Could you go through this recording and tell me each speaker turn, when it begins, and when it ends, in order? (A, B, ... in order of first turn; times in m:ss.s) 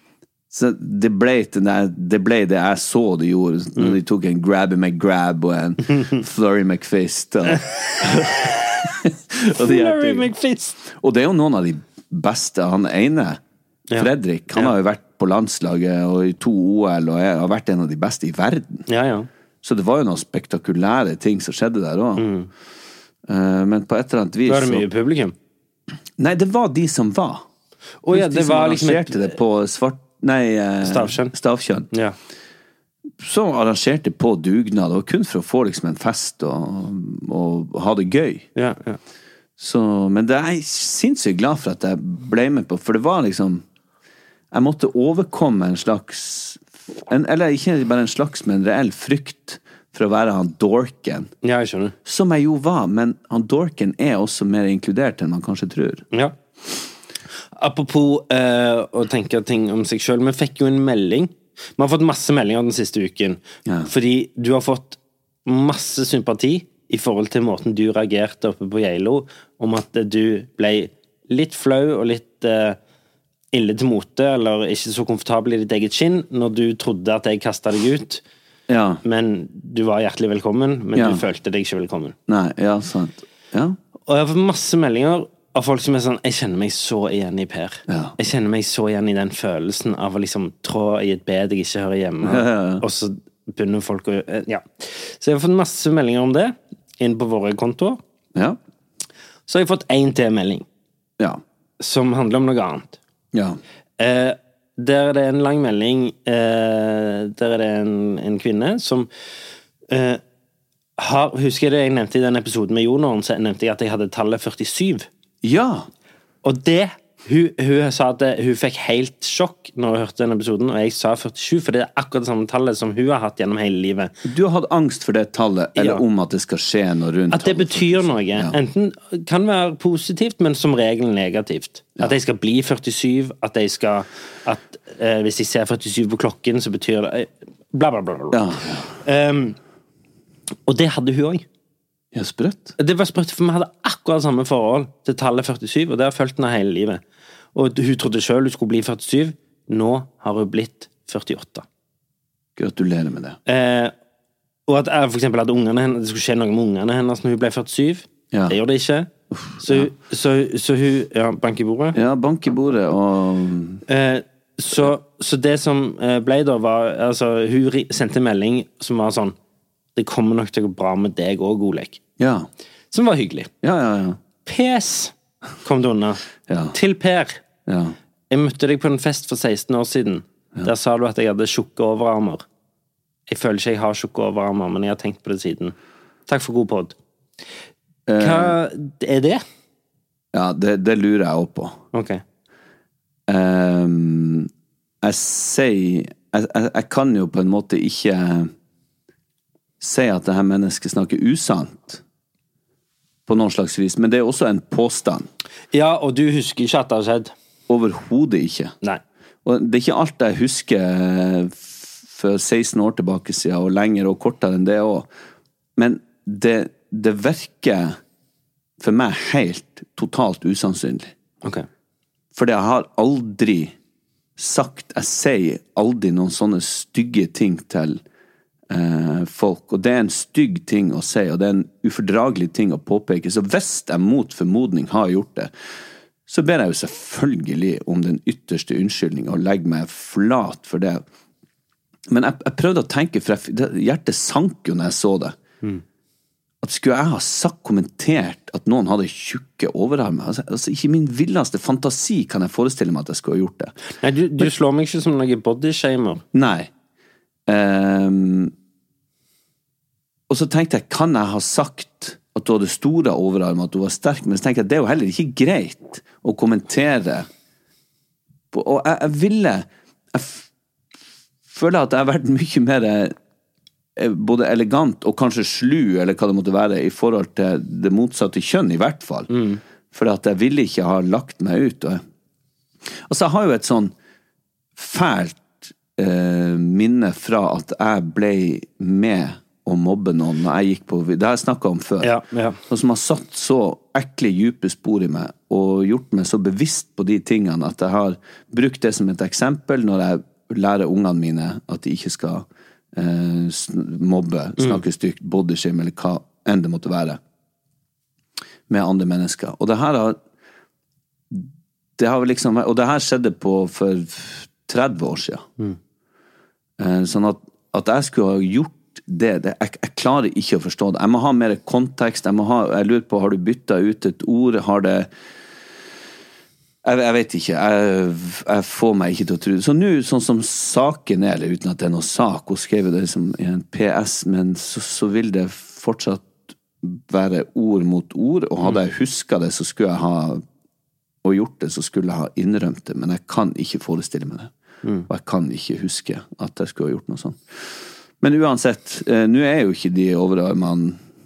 0:00.5-0:10.3 A
0:07.6-0:08.9 B
0:09.6-0:10.8 B
0:10.8-0:13.4 A
0:13.9-0:14.7 B
0:13.9-0:18.8 A
0:18.9-0:19.3 B
0:19.6-0:22.3 A
0:22.2-0:22.5 B
0:23.3-0:24.8 A
0:24.5-0:25.3 B
0:26.2-0:27.4 A
0:28.0-0:29.3 B
0:28.1-0:31.9 A
0:30.8-0:31.3 B
0:31.9-0:32.2 B
0:33.2-0:38.5 A
0:38.6-0:39.0 B
0:39.6-0:43.6 A
0:44.5-0:51.3 A
0:51.4-0:51.9 B
0:52.0-0:56.0 A
0:57.5-1:12.8 B
1:13.5-1:18.2 B
1:18.7-1:19.0 A
1:19.0-1:22.1 B
1:20.9-1:21.2 A
1:22.3-1:23.8 A
1:24.1-1:38.0 B
1:27.9-1:28.2 A
1:32.2-1:32.8 A
1:39.5-1:40.6 B
1:41.8-1:43.0 B
1:43.3-1:43.6 A
1:44.0-1:49.1 B
1:49.9-1:50.2 B
1:51.0-1:55.1 B
1:55.4-1:55.9 A
1:56.4-2:04.1 B
2:04.2-2:08.6 A
2:05.8-2:06.0 B
2:07.3-2:18.4 B
2:18.3-2:19.0 A
2:19.0-2:19.6 B
2:20.7-2:21.4 B
2:22.1-2:22.8 A
2:22.8-2:27.0 B
2:27.5-2:31.6 B
2:32.6-2:33.4 A
2:33.5-2:33.9 B
2:34.7-2:39.1 B
2:38.3-2:38.6 A
2:39.3-2:39.9 A
2:39.6-2:42.0 B
2:41.9-2:43.8 A
2:43.9-2:49.4 B
2:50.0-2:52.0 B
2:52.2-2:52.5 A
2:52.9-2:53.5 B
2:53.6-2:54.2 A
2:54.4-2:55.1 B
2:55.6-2:56.2 B
2:56.5-2:56.8 A
2:56.7-2:57.4 B
2:57.6-2:58.0 A
2:58.3-3:02.4 B
3:03.3-3:05.7 B
3:06.3-3:06.9 B
3:08.1-3:08.6 A
3:08.2-3:09.4 B
3:10.3-3:11.8 A
3:11.9-3:12.2 B
3:13.3-3:14.5 A
3:15.0-3:18.5 A
3:19.8-3:22.0 A
3:23.3-3:25.3 A
3:25.7-3:27.3 B
3:27.7-3:28.7 A
3:29.4-3:35.1 A
3:35.8-3:38.0 A
3:38.8-3:41.1 A
3:42.3-3:43.8 A
3:44.4-3:48.0 A
3:48.7-3:55.5 A
3:56.3-4:01.0 A
4:02.1-4:05.4 A
4:06.6-4:13.7 A
4:14.0-4:16.2 B
4:16.3-4:16.7 A
4:17.5-4:18.5 A
4:20.3-4:27.3 A
4:28.5-4:30.5 A
4:31.5-4:33.1 A
4:34.0-4:39.3 A
4:39.3-4:39.6 B
4:39.9-4:42.0 A
4:43.0-4:43.9 A
4:44.8-4:52.1 A
4:52.0-4:52.6 B
4:52.7-5:07.2 A
5:08.7-5:10.2 A
5:11.3-5:15.4 A
5:16.8-5:25.1 A
5:26.8-5:40.4 A
5:41.2-5:44.5 A
5:45.1-5:51.0 A